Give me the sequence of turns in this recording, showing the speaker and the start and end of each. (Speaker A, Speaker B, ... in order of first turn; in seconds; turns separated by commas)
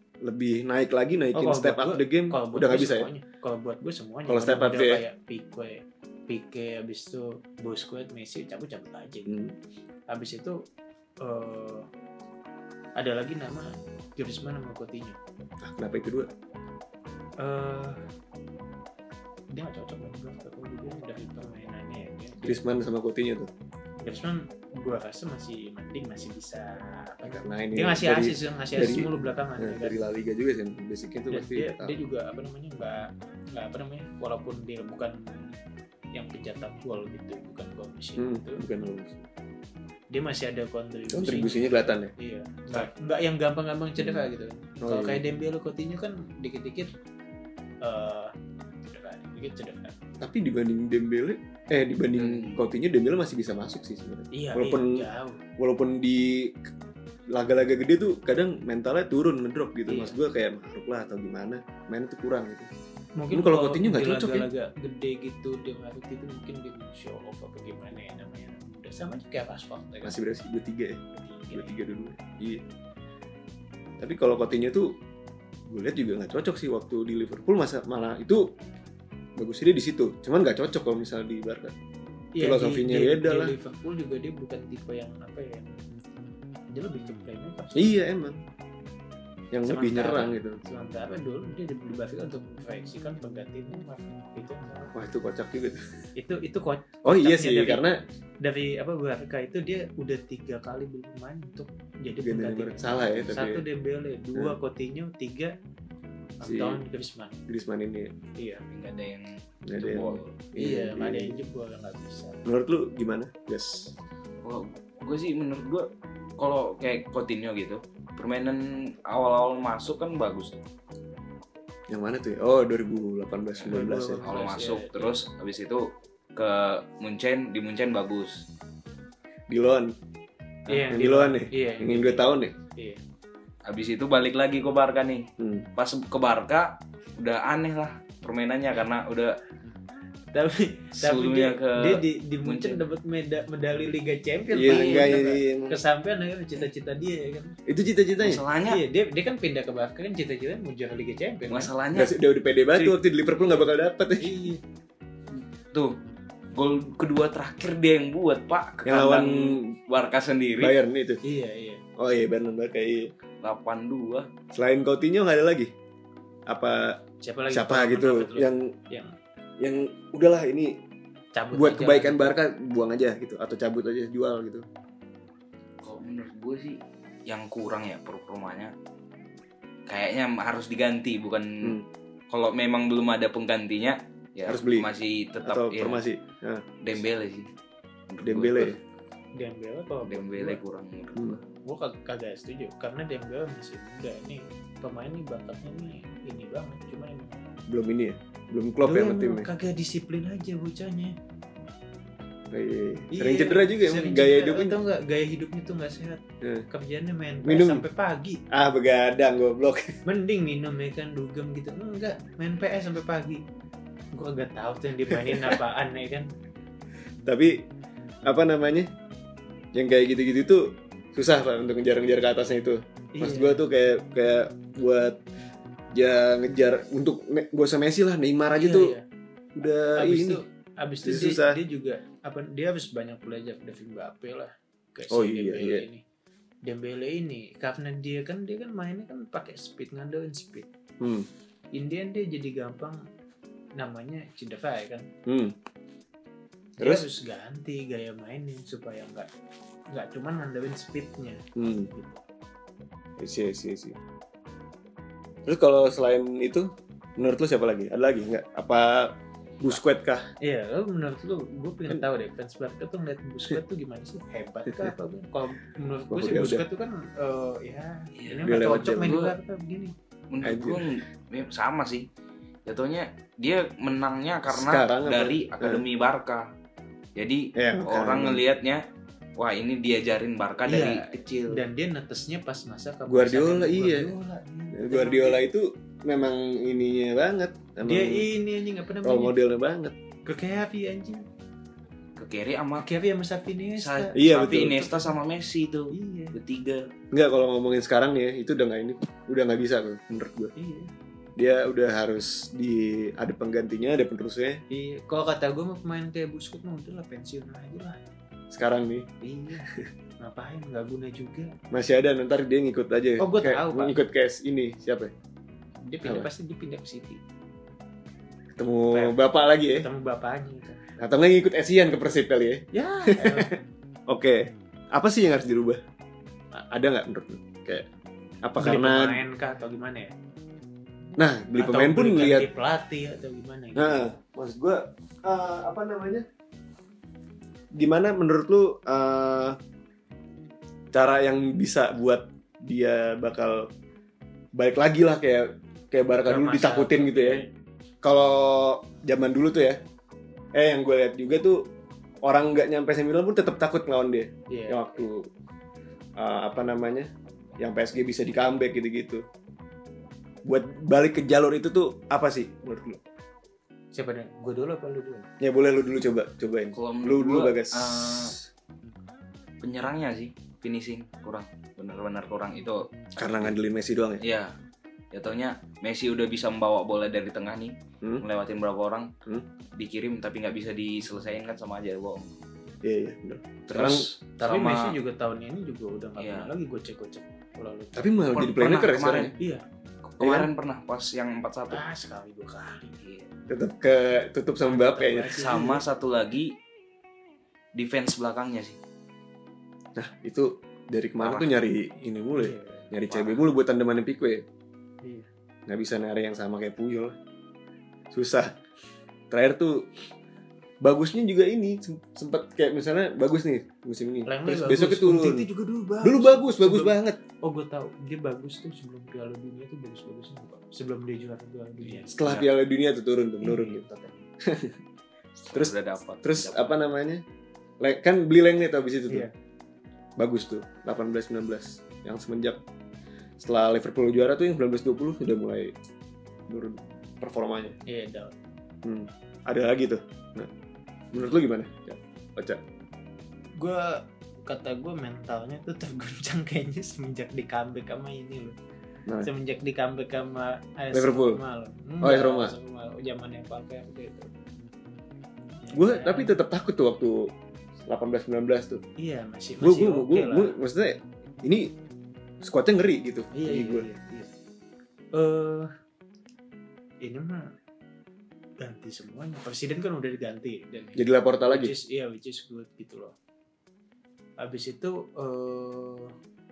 Speaker A: 0.2-3.1, Speaker B: 1.3-9.4, Speaker A: 4.3-5.0, Speaker A: 9.3-9.6, Speaker B: 10.1-10.6, Speaker B: 11.2-11.9, Speaker B: 13.0-15.2, Speaker A: 15.6-16.3, Speaker B: 17.4-18.1, Speaker B: 19.5-22.6, Speaker A: 22.4-23.5, Speaker B: 24.0-30.0, Speaker A: 27.2-32.0, Speaker B: 31.3-35.6, Speaker B: 36.1-38.7, Speaker A: 38.2-39.2, Speaker B: 40.1-46.9, Speaker A: 41.1-42.1, Speaker A: 44.0-44.3, Speaker A: 44.8-45.2, Speaker B: 47.8-48.3, Speaker B: 48.9-50.0, Speaker A: 50.2-56.7, Speaker C: 52.2-52.6, Speaker B: 54.3-55.4, Speaker A: 57.3-62.7, Speaker B: 59.9-60.2, Speaker B: 63.2-70.2, Speaker A: 63.3-64.5, Speaker A: 70.0-71.0, Speaker B: 71.1-71.8, Speaker A: 71.5-72.6, Speaker A: 74.0-75.0, Speaker A: 75.7-78.5, Speaker A: 79.4-81.8, Speaker B: 82.3-85.8, Speaker A: 82.4-83.5, Speaker B: 86.7-88.0, Speaker A: 87.8-88.4, Speaker A: 89.5-90.6, Speaker B: 89.7-95.0, Speaker A: 94.9-95.8, Speaker B: 96.2-97.9, Speaker A: 97.0-98.0, Speaker B: 98.4-105.5, Speaker A: 102.2-103.6, Speaker B: 106.4-107.4, Speaker A: 106.4-106.8, Speaker A: 107.5-108.1, Speaker B: 108.4-108.7, Speaker C: 108.7-110.4, Speaker A: 109.7-111.4, Speaker B: 110.6-112.4, Speaker A: 112.5-114.0, Speaker C: 114.4-115.9, Speaker C: 116.4-120.6, Speaker A: 121.9-124.2, Speaker B: 123.7-125.2, Speaker C: 124.2-128.4, Speaker A: 129.5-129.9, Speaker A: 130.7-132.5, Speaker B: 130.7-133.0, Speaker C: 133.7-139.4, Speaker A: 135.4-135.7, Speaker B: 140.3-147.6, Speaker C: 141.0-142.8, Speaker A: 144.5-145.8, Speaker C: 144.7-145.3, Speaker A: 147.7-148.4, Speaker C: 148.2-148.8, Speaker B: 148.6-151.7, Speaker C: 151.5-152.2, Speaker A: 151.9-154.4, Speaker B: 154.2-154.6, Speaker C: 155.3-156.0, Speaker C: 156.6-160.8, Speaker A: 158.8-159.7, Speaker A: 160.5-161.2, Speaker B: 161.2-161.8, Speaker A: 162.0-163.1, Speaker C: 163.4-164.3, Speaker A: 164.5-165.7, Speaker A: 166.5-168.7, Speaker B: 167.2-169.1, Speaker A: 169.6-170.8, Speaker B: 171.3-172.3, Speaker A: 171.5-174.7, Speaker C: 175.8-178.7, Speaker C: 179.9-181.8, Speaker C: 182.3-186.0, Speaker A: 184.5-184.9, Speaker A: 185.4-186.8, Speaker C: 186.8-187.5, Speaker C: 188.1-188.8, Speaker A: 188.2-188.8, Speaker B: 189.4-190.6, Speaker C: 190.0-191.4, Speaker B: 191.6-197.4, Speaker A: 197.7-199.5, Speaker B: 198.8-201.2, Speaker A: 202.5-204.8, Speaker B: 203.1-208.4, Speaker A: 206.4-206.7, Speaker A: 207.4-207.8, Speaker A: 208.5-210.0, Speaker B: 210.1-213.4, Speaker B: 214.1-216.3, Speaker A: 215.3-215.5, Speaker A: 217.2-217.7, Speaker A: 218.2-218.9, Speaker A: 219.7-225.2, Speaker B: 223.1-223.7, Speaker A: 225.9-229.0, Speaker B: 228.5-229.0, Speaker A: 229.6-230.4, Speaker B: 229.9-236.0, Speaker A: 231.0-231.6, Speaker A: 235.1-235.9, Speaker B: 236.7-240.7, Speaker A: 241.0-241.3, Speaker B: 241.8-243.0, Speaker B: 243.8-245.1, Speaker A: 245.3-245.6, Speaker A: 246.8-247.1, Speaker B: 246.8-249.3, Speaker B: 249.9-252.2, Speaker A: 251.6-251.9, Speaker A: 253.2-254.0, Speaker A: 255.5-260.3, Speaker B: 260.4-269.9, Speaker A: 266.1-266.6, Speaker C: 268.2-269.4, Speaker A: 268.4-269.2, Speaker C: 270.3-272.1, Speaker A: 270.4-271.0, Speaker C: 272.7-276.5, Speaker A: 274.5-275.8, Speaker C: 277.2-278.8, Speaker A: 277.6-278.4, Speaker C: 279.4-281.6, Speaker B: 280.6-285.4, Speaker A: 283.1-284.1, Speaker A: 284.7-288.3, Speaker B: 287.8-289.4, Speaker A: 289.0-290.0, Speaker B: 290.2-291.2, Speaker C: 292.2-292.9, Speaker B: 292.8-294.1, Speaker C: 293.8-296.9, Speaker A: 294.1-295.1, Speaker B: 295.9-296.4, Speaker A: 297.1-300.5, Speaker B: 300.6-300.9, Speaker A: 301.4-304.6, Speaker B: 304.7-308.0, Speaker A: 308.5-309.1, Speaker B: 309.2-309.7, Speaker B: 310.2-311.5, Speaker A: 311.7-315.1, Speaker B: 313.2-314.0, Speaker B: 315.8-317.2, Speaker A: 316.0-316.3, Speaker A: 318.5-319.9, Speaker B: 318.9-320.9, Speaker A: 321.0-323.5, Speaker B: 322.7-323.6, Speaker A: 324.1-325.8, Speaker A: 326.5-327.9, Speaker A: 328.4-329.2, Speaker B: 328.6-330.1, Speaker A: 331.2-332.5, Speaker B: 331.6-334.1, Speaker A: 333.8-336.3, Speaker A: 337.7-339.6, Speaker A: 340.9-343.7, Speaker A: 344.6-347.4, Speaker B: 346.2-347.5, Speaker A: 348.0-349.8, Speaker A: 350.5-351.7, Speaker A: 352.2-355.3, Speaker B: 354.5-355.1, Speaker A: 356.2-359.2, Speaker A: 360.4-363.0, Speaker B: 363.9-365.3, Speaker A: 365.4-368.5, Speaker C: 366.8-368.4, Speaker C: 369.6-372.9, Speaker A: 373.2-374.2, Speaker C: 374.2-374.6, Speaker C: 375.1-379.1, Speaker C: 379.7-382.3, Speaker A: 382.8-384.1, Speaker C: 383.7-384.9, Speaker B: 384.4-388.1, Speaker C: 386.2-386.5, Speaker A: 387.9-389.4, Speaker C: 388.3-389.3, Speaker B: 389.4-389.6, Speaker C: 390.1-391.8, Speaker A: 390.2-390.5, Speaker B: 391.7-393.0, Speaker C: 393.0-393.3, Speaker A: 393.5-395.8, Speaker B: 394.6-395.8, Speaker C: 395.3-396.6, Speaker C: 397.8-398.8, Speaker A: 400.0-404.4, Speaker C: 401.2-401.6, Speaker B: 402.4-402.9, Speaker C: 403.1-403.4, Speaker B: 405.0-405.3, Speaker A: 405.7-407.2, Speaker A: 408.1-408.5, Speaker A: 409.3-409.9, Speaker A: 410.8-415.5, Speaker B: 414.3-422.5, Speaker A: 416.0-417.2, Speaker A: 422.1-424.8, Speaker B: 423.4-424.1, Speaker C: 425.4-426.9, Speaker A: 425.5-427.2, Speaker A: 427.8-429.3, Speaker A: 430.2-432.6, Speaker A: 433.4-435.8, Speaker A: 436.5-437.8, Speaker B: 437.9-438.4, Speaker A: 438.8-440.5, Speaker A: 441.1-442.6, Speaker B: 443.6-448.6, Speaker B: 449.2-454.3, Speaker A: 450.9-451.4, Speaker A: 452.0-452.5, Speaker B: 455.6-456.4, Speaker A: 455.7-457.3, Speaker A: 457.9-458.8, Speaker B: 459.0-460.6, Speaker A: 459.6-461.8, Speaker A: 462.4-463.9, Speaker B: 463.3-464.3, Speaker B: 465.1-465.7, Speaker B: 467.0-467.5, Speaker B: 468.6-473.1, Speaker A: 471.0-471.7, Speaker B: 474.4-476.1